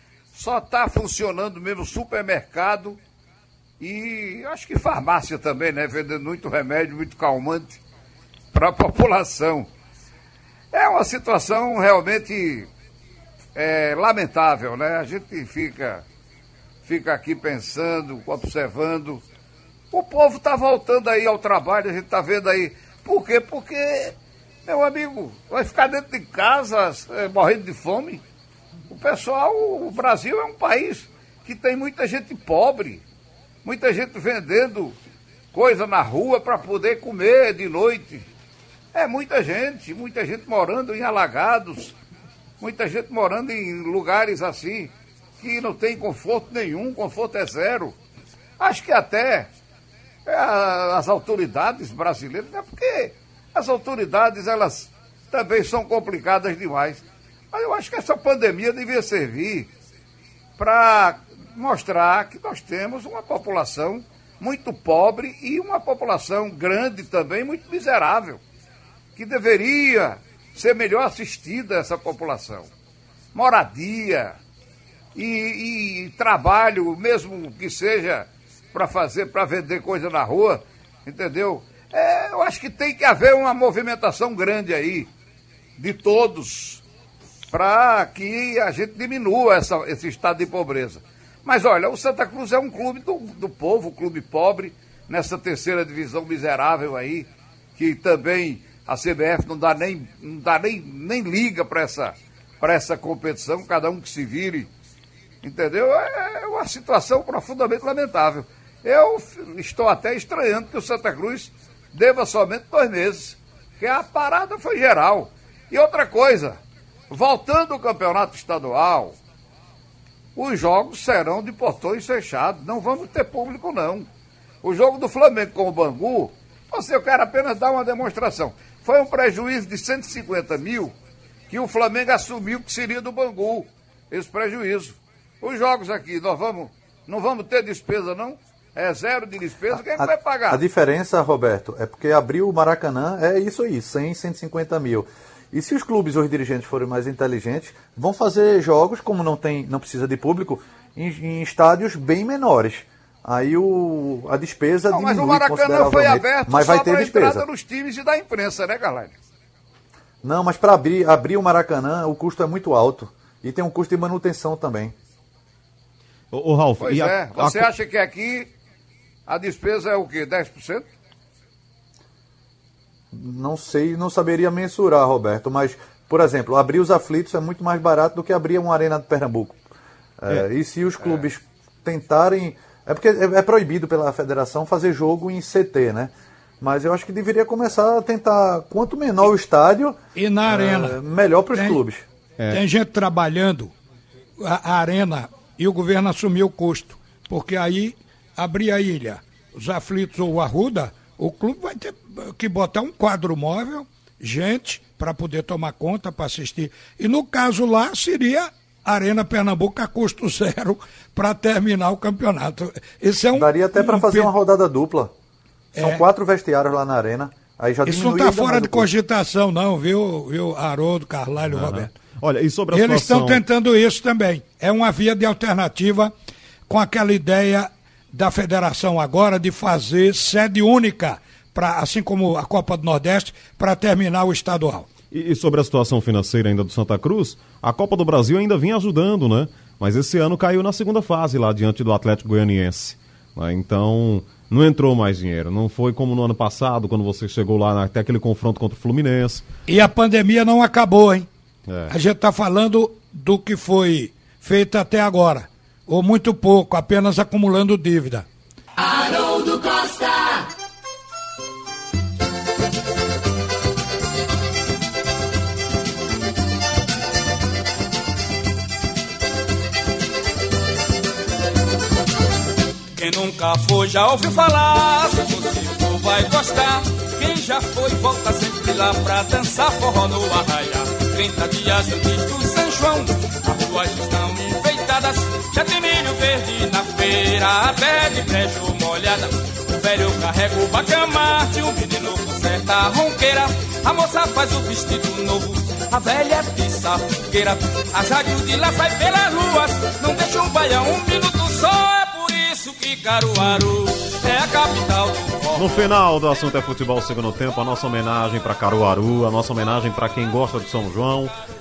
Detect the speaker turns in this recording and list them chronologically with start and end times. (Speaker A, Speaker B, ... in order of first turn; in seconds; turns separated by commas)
Speaker A: 0.3-3.0, Speaker A: 3.8-7.8, Speaker A: 8.5-9.7, Speaker A: 10.7-12.7, Speaker A: 13.5-16.0, Speaker A: 16.8-19.2, Speaker A: 19.9-24.1, Speaker A: 24.6-28.2, Speaker A: 28.9-33.0, Speaker A: 33.6-35.0, Speaker A: 35.5-38.3, Speaker A: 38.9-41.9, Speaker A: 42.6-48.0, Speaker A: 48.6-49.5, Speaker A: 50.2-59.7, Speaker A: 60.6-68.4, Speaker A: 69.2-72.7, Speaker A: 73.3-74.4, Speaker A: 75.1-85.1, Speaker A: 85.8-86.8, Speaker A: 87.5-104.7, Speaker A: 105.4-119.2, Speaker A: 120.3-124.1, Speaker A: 124.6-130.9, Speaker A: 131.5-140.6, Speaker B: 140.0-157.4, Speaker A: 154.9-159.2, Speaker B: 160.2-164.9, Speaker C: 166.3-167.7, Speaker A: 166.8-168.5, Speaker A: 169.3-170.8, Speaker B: 173.1-179.6, Speaker B: 180.2-192.0, Speaker D: 190.2-191.0, Speaker D: 191.5-191.8, Speaker D: 192.5-193.7, Speaker D: 194.4-214.3, Speaker B: 213.3-215.1, Speaker B: 215.7-218.9, Speaker D: 215.8-216.0, Speaker D: 217.8-221.9, Speaker C: 221.5-223.4, Speaker D: 222.7-226.1, Speaker D: 226.7-234.9, Speaker C: 235.1-249.4, Speaker D: 249.7-251.3, Speaker C: 251.7-251.9, Speaker D: 251.9-258.2, Speaker E: 272.9-305.9, Speaker C: 305.6-311.3